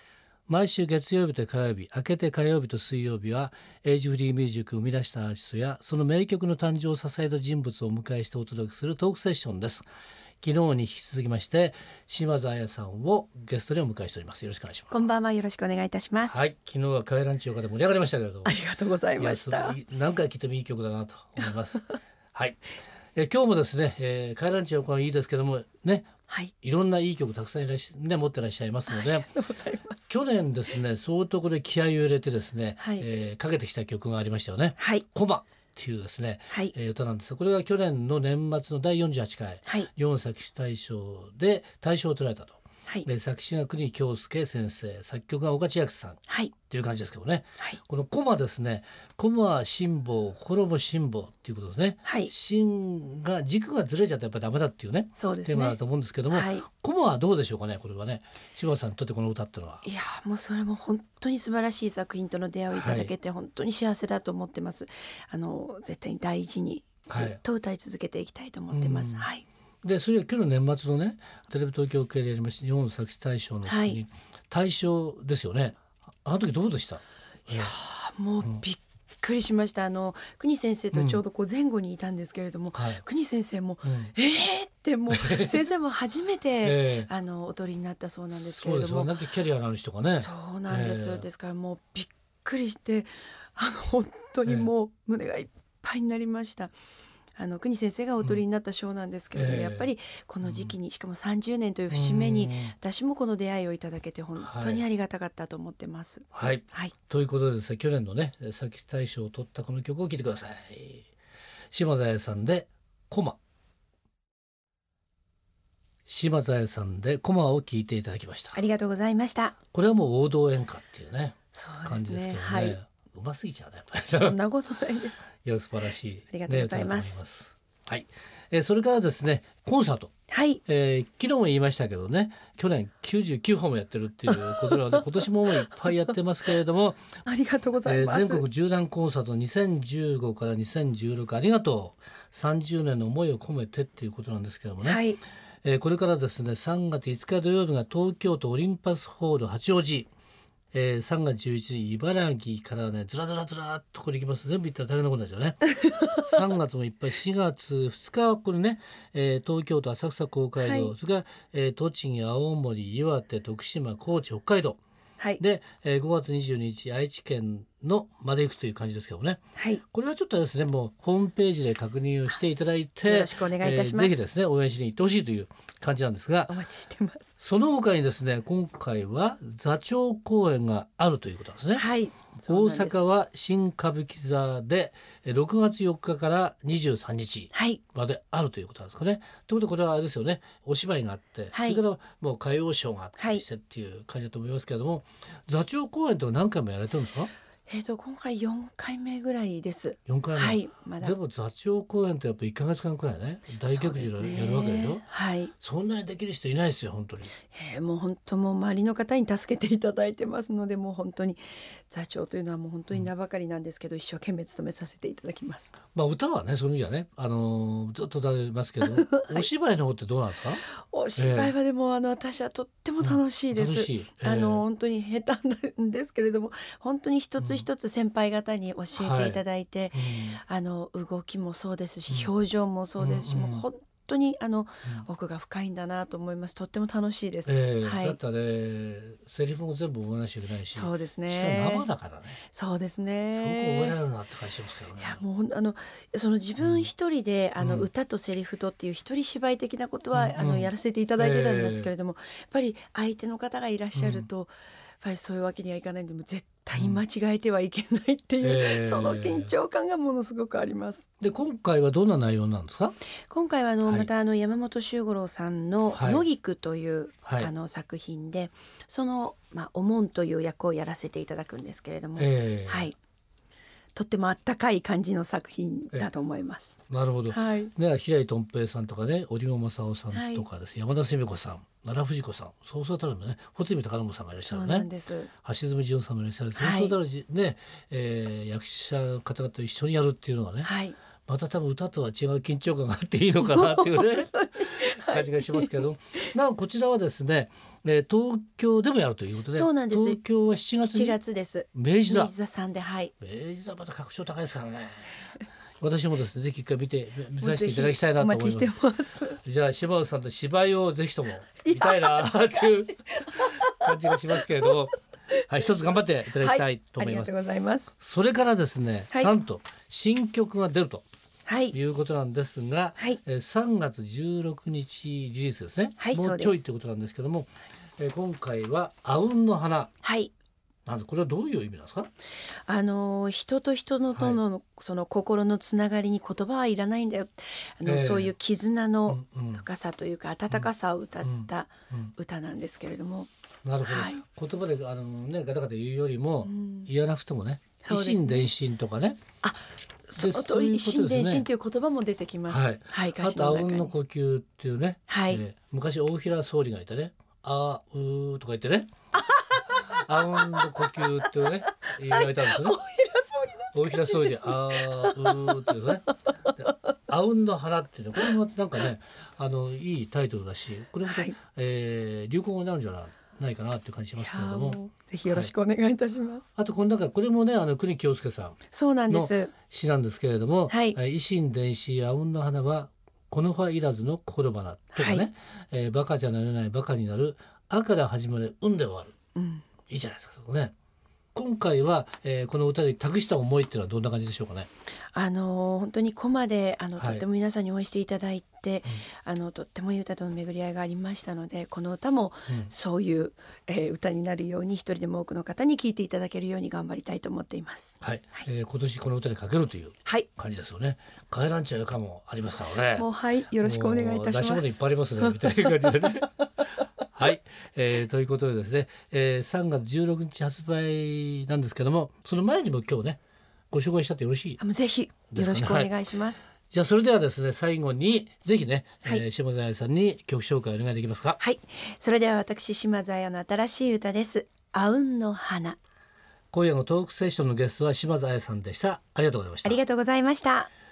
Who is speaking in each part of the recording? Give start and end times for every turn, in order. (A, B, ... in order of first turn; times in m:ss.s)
0:00.5-0:09.9 A
0:10.4-0:15.0 A
0:14.9-0:16.4 B
0:16.3-0:18.5 A
0:18.4-0:19.8 B
0:19.2-0:22.6 A
0:23.1-0:29.3 A
0:28.9-0:30.0 B
0:30.1-0:59.8 A
0:32.8-0:33.0 B
0:34.8-0:35.0 B
0:46.3-0:46.5 B
0:52.0-0:52.3 B
0:55.2-0:55.8 B
0:56.3-0:56.6 B
0:59.8-1:09.4 B
1:02.7-1:03.1 A
1:07.1-1:07.4 A
1:08.7-1:09.3 A
1:09.8-1:17.7 A
1:13.6-1:14.0 B
1:17.5-1:29.1 B
1:20.9-1:21.2 A
1:22.7-1:23.0 A
1:23.8-1:24.1 A
1:25.1-1:25.6 A
1:26.6-1:27.1 A
1:28.4-1:31.2 A
1:30.1-1:36.7 B
1:37.4-1:46.9 B
1:39.3-1:39.9 A
1:40.4-1:40.7 A
1:41.9-1:42.7 A
1:44.4-1:44.8 A
1:46.3-1:51.1 A
1:51.7-1:53.4 A
1:56.0-1:58.6 A
1:58.5-1:59.6 B
1:59.7-2:04.4 A
2:01.5-2:02.8 B
2:04.1-2:05.2 B
2:05.4-2:10.1 A
2:06.3-2:07.2 B
2:10.3-2:10.6 B
2:10.6-2:17.1 A
2:14.5-2:15.0 B
2:17.2-2:18.4 B
2:17.8-2:25.0 A
2:24.8-2:25.2 B
2:25.6-2:30.1 A
2:30.7-2:44.8 A
2:40.6-2:40.9 B
2:45.4-2:56.5 A
2:49.6-2:49.8 B
2:53.1-2:54.2 B
2:56.5-2:57.3 B
2:57.4-3:01.8 A
3:01.7-3:03.0 B
3:02.4-3:17.3 A
3:07.5-3:07.8 B
3:11.5-3:11.8 B
3:13.2-3:13.4 B
3:17.7-3:21.1 B
3:20.1-3:25.0 A
3:23.7-3:25.5 B
3:25.6-3:27.3 A
3:27.5-3:35.8 B
3:35.9-3:40.6 A
3:38.9-3:39.4 B
3:40.8-3:58.2 B
3:41.2-3:41.5 A
3:43.0-3:44.6 A
3:47.4-3:47.6 A
3:49.0-3:49.4 A
3:49.9-3:50.4 A
3:53.0-3:53.6 A
3:57.4-4:02.4 A
4:00.7-4:01.8 B
4:02.5-4:04.0 B
4:03.4-4:05.2 A
4:05.0-4:21.1 B
4:06.6-4:06.9 A
4:07.6-4:07.9 A
4:10.1-4:11.9 A
4:13.9-4:14.3 A
4:16.7-4:17.0 A
4:18.4-4:19.5 A
4:21.2-4:23.0 A
4:23.3-4:32.9 B
4:25.9-4:26.2 A
4:27.2-4:27.5 A
4:32.2-4:32.9 A
4:33.9-4:36.8 B
4:36.9-4:44.9 A
4:37.3-4:37.7 B
4:40.1-4:40.4 B
4:44.5-4:45.3 B
4:45.4-4:50.7 A
4:46.5-4:47.0 B
4:50.6-4:51.0 B
4:51.2-5:01.2 A
4:53.5-4:55.8 B
4:59.5-5:00.2 B
5:00.8-5:03.1 B
5:01.7-5:02.3 A
5:03.2-5:05.2 A
5:05.8-5:08.7 A
5:07.4-5:09.4 B
5:09.4-5:15.0 A
5:11.6-5:14.8 B
5:15.5-5:17.3 A
5:16.4-5:18.0 B
5:18.0-5:21.0 A
5:21.4-5:21.8 B
5:21.7-5:29.9 A
5:26.0-5:26.6 B
5:30.0-5:30.3 B
5:30.8-5:32.1 A
5:32.6-5:43.3 B
5:37.8-5:38.3 A
5:39.1-5:39.6 A
5:41.2-5:42.1 A
5:43.6-5:49.2 A
5:43.8-5:44.2 B
5:46.4-5:46.9 B
5:47.8-5:48.5 B
5:49.4-5:53.9 B
5:50.2-5:51.4 A
5:52.5-5:58.9 A
5:55.1-5:55.4 B
5:59.3-5:59.7 B
5:59.6-6:02.8 A
6:00.4-6:06.1 B
6:03.7-6:06.0 A
6:06.6-6:15.5 A
6:11.0-6:11.3 B
6:14.2-6:16.5 B
6:16.6-6:18.6 A
6:18.7-6:19.5 B
6:19.1-6:29.1 A
6:20.7-6:21.0 B
6:24.9-6:25.3 B
6:29.3-6:29.6 B
6:29.9-6:30.7 A
6:31.3-6:34.7 A
6:35.1-6:48.4 B
6:37.0-6:37.2 A
6:48.0-6:53.0 A
6:52.9-6:56.0 B
6:53.6-6:56.4 A
6:57.1-7:03.2 A
7:03.7-7:04.6 A
7:04.6-7:06.5 B
7:05.3-7:05.9 A
7:06.7-7:11.4 A
7:11.4-7:15.8 B
7:16.5-7:19.8 A
7:19.6-7:20.7 B